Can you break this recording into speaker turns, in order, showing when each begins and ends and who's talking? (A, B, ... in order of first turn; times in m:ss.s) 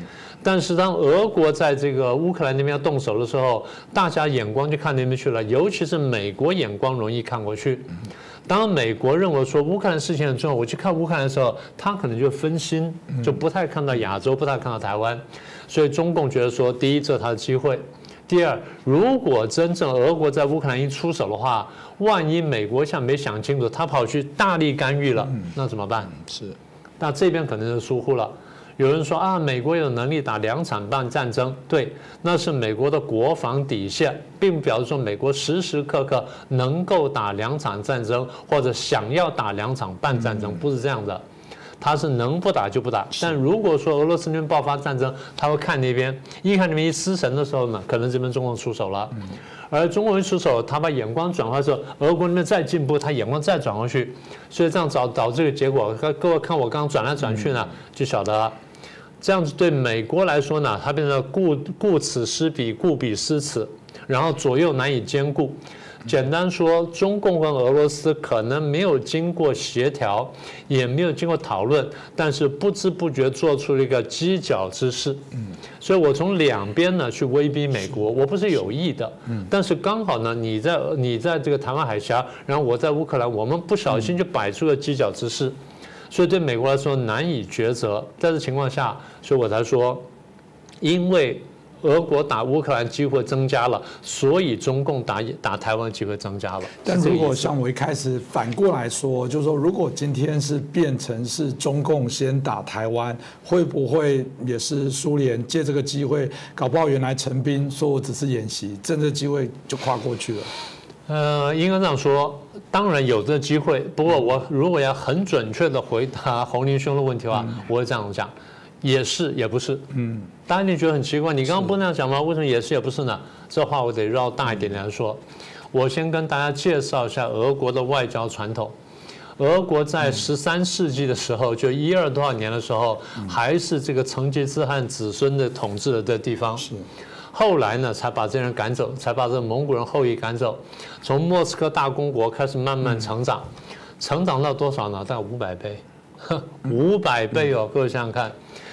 0:00.4-0:07.9 A
0:08.4-0:26.2 A
0:26.2-0:26.6 B
0:27.0-0:41.2 A
0:41.8-0:58.6 A
0:59.2-1:15.3 A
1:15.8-1:25.6 A
1:26.1-1:30.1 A
1:30.8-1:37.5 A
1:36.8-1:50.5 B
1:51.1-1:59.9 A
1:59.9-2:00.3 B
2:00.5-2:08.7 A
2:09.4-2:16.7 A
2:17.3-2:23.5 A
2:24.0-2:28.3 A